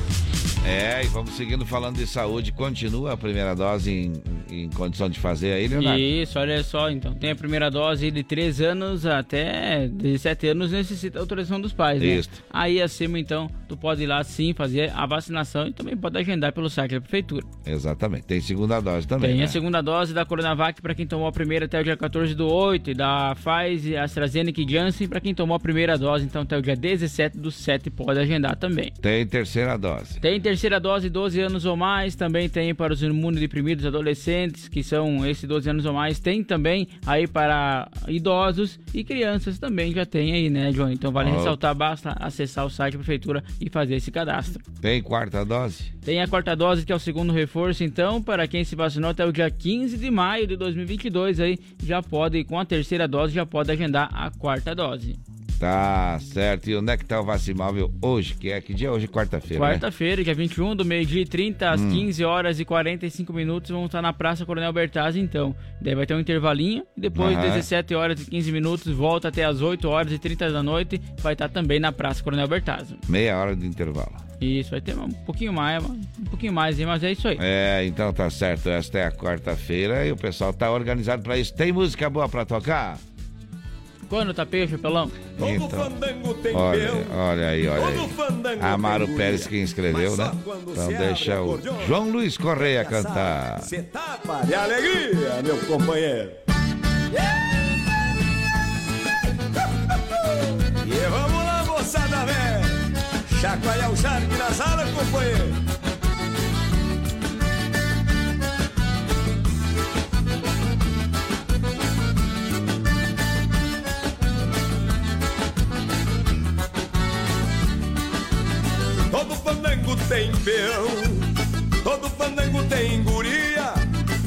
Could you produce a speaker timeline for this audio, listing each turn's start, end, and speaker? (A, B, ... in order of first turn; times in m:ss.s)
0:00.6-0:06.0 A
0:05.7-0:17.5 B
0:12.0-0:12.4 A
0:17.6-0:19.6 A
0:19.2-0:28.9 B
0:29.0-0:30.2 A
0:30.2-0:44.6 B
0:41.2-0:41.6 A
0:44.8-0:45.9 A
0:46.0-0:55.2 B
0:55.6-0:59.8 A
0:59.6-1:13.0 B
1:01.7-1:02.0 A
1:07.2-1:07.6 A
1:13.1-1:14.2 A
1:14.4-1:17.4 B
1:17.4-1:23.0 A
1:24.1-1:25.1 B
1:25.4-1:25.9 A
1:25.4-1:27.1 C
1:26.5-1:33.7 A
1:27.7-1:32.0 C
1:32.6-1:36.4 C
1:40.8-1:42.8 C
1:43.3-1:45.6 C
1:59.1-2:01.3 C
2:01.8-2:03.8 C